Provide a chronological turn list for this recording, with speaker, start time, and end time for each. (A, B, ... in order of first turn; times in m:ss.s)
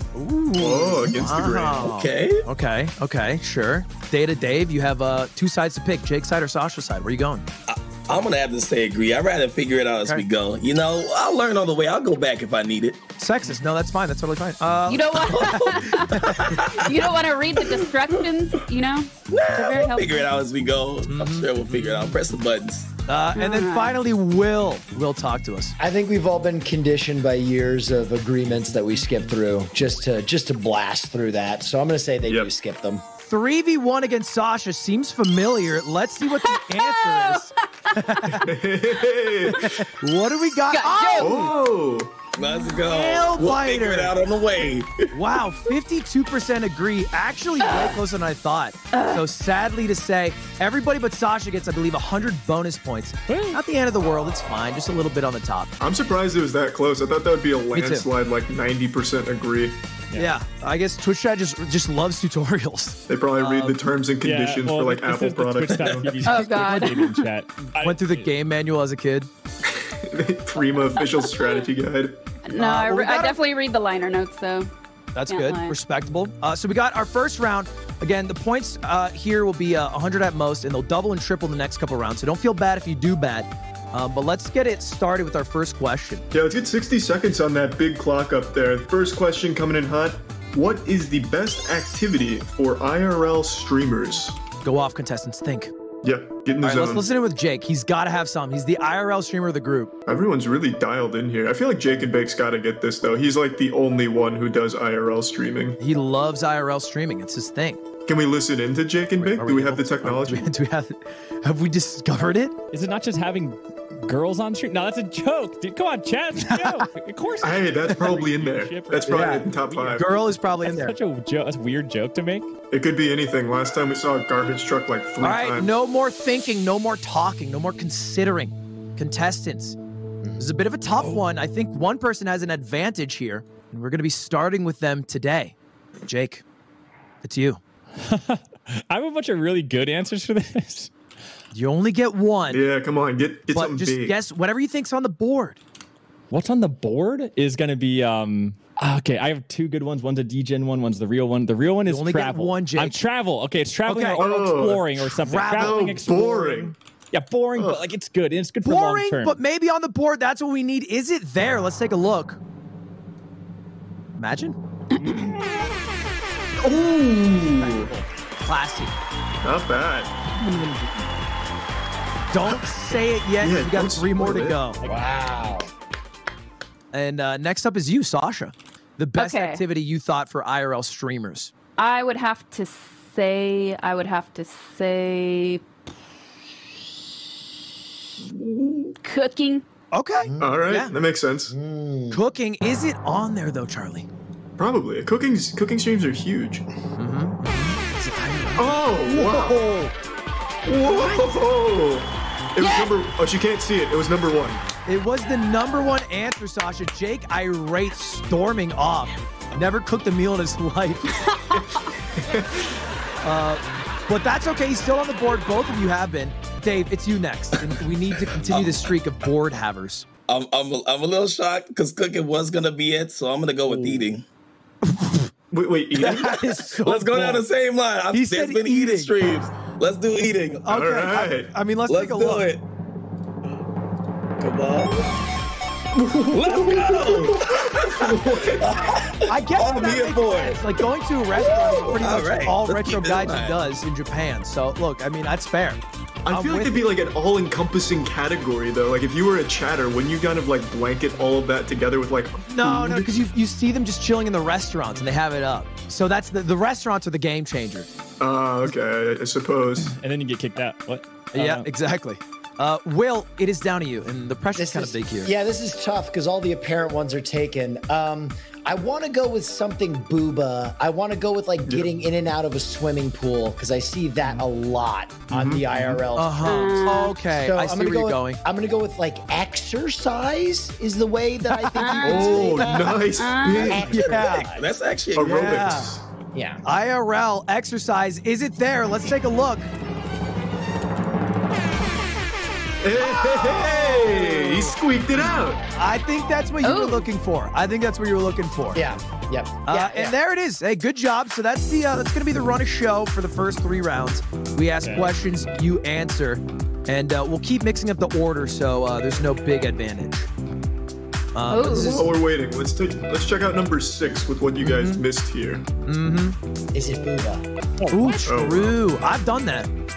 0:00.1-0:07.4 A
0:00.6-0:01.9 B
0:01.8-0:02.4 C
0:07.7-0:13.0 C
0:13.2-0:16.7 A
0:14.9-0:20.3 D
0:15.1-0:15.8 C
0:16.3-0:18.2 C
0:19.3-0:22.9 C
0:21.1-0:21.8 A
0:23.1-0:25.8 A
0:23.3-0:23.9 D
0:25.8-0:33.0 E
0:32.2-0:32.5 B
0:33.2-0:38.5 A
0:36.4-0:38.1 D
0:38.3-0:39.8 B
0:39.4-0:41.5 A
0:40.7-0:41.5 D
0:41.2-0:42.2 B
0:42.4-0:45.1 C
0:42.8-0:44.1 A
0:45.1-0:55.7 A
0:47.6-0:48.0 D
0:48.9-0:49.2 D
0:53.3-0:53.6 F
0:55.8-0:59.8 B
0:57.7-0:58.1 A
1:00.1-1:00.3 F
1:00.1-1:03.8 A
1:03.1-1:06.4 B
1:04.2-1:08.3 F
1:06.2-1:07.2 D
1:07.8-1:09.3 A
1:09.6-1:12.2 B
1:11.0-1:11.6 D
1:12.4-1:14.7 D
1:12.5-1:13.4 A
1:15.1-1:26.2 A
1:15.3-1:15.8 D
1:26.3-1:34.4 B
1:34.6-1:35.7 A
1:36.0-1:37.1 B
1:36.6-1:39.9 A
1:40.1-1:45.8 B
1:45.8-1:47.8 A
1:48.1-1:50.5 B
1:49.2-1:52.6 A
1:52.7-2:02.5 F
1:56.4-1:56.9 A
1:57.4-2:00.1 B
1:59.1-2:00.9 A
2:02.7-2:05.7 B
2:05.2-2:09.8 A
2:10.4-2:16.4 A
2:17.2-2:17.6 A
2:18.0-2:20.9 F
2:21.5-2:22.6 A
2:22.5-2:24.2 B
2:23.5-2:25.6 A
2:26.3-2:39.4 F
2:31.8-2:33.0 A
2:33.8-2:34.3 A
2:34.2-2:36.7 B
2:35.2-2:35.8 A
2:37.5-2:37.8 B
2:38.6-2:42.4 A
2:44.2-2:44.6 A
2:45.0-2:45.3 F
2:45.0-2:45.3 B
2:46.6-2:47.9 B
2:47.6-2:48.0 F
2:48.4-2:48.9 A
2:49.4-2:50.1 B
2:52.3-2:54.8 A
2:53.4-2:54.6 B
2:54.8-2:55.7 E
2:56.9-3:01.5 A
2:59.2-2:59.6 D
3:01.8-3:05.6 D
3:08.2-3:08.9 B
3:09.0-3:09.6 D
3:09.9-3:10.9 A
3:10.2-3:10.6 E
3:10.4-3:11.5 B
3:11.5-3:12.2 E
3:12.1-3:14.1 A
3:14.6-3:16.6 B
3:17.0-3:19.9 A
3:18.6-3:19.6 B
3:20.7-3:24.6 B
3:22.6-3:22.9 D
3:24.8-3:31.3 A
3:31.4-3:31.7 D
3:32.2-3:32.7 B
3:33.2-3:40.1 A
3:38.3-3:38.9 C
3:40.3-3:44.2 C
3:44.8-3:45.3 A
3:45.5-3:46.5 B
3:46.0-3:47.4 A
3:46.1-3:50.6 C
3:48.1-3:49.1 A
3:50.6-3:52.5 A
3:50.7-3:51.5 B
3:51.9-3:52.6 C
3:54.4-3:55.2 C
3:55.9-3:58.9 B
3:56.3-4:00.6 C
3:59.2-4:06.9 A
4:01.3-4:03.6 C
4:06.2-4:13.1 B
4:12.5-4:17.9 A
4:18.2-4:19.9 B
4:19.8-4:21.7 F
4:21.3-4:25.3 A
4:24.6-4:44.7 E
4:35.3-4:36.0 B
4:36.2-4:38.4 A
4:36.4-4:37.2 D
4:41.5-4:42.8 A
4:41.8-4:43.8 D
4:42.0-4:43.9 B
4:43.8-4:44.5 A
4:43.9-4:45.6 C
4:45.2-4:46.0 B
4:45.2-4:45.9 A
4:46.3-4:46.6 E
4:46.6-4:49.7 A
4:52.8-4:55.7 B
4:53.0-4:54.7 A
4:55.7-4:58.8 A
4:56.6-4:57.1 D
4:58.7-5:00.1 E
4:59.7-5:10.3 A
5:04.8-5:05.1 F
5:11.3-5:12.1 A
5:11.5-5:12.1 D
5:11.7-5:15.6 B
5:14.6-5:15.0 A
5:15.8-5:16.4 A
5:16.7-5:17.4 E
5:17.8-5:18.2 F
5:17.9-5:19.7 A
5:18.2-5:18.8 B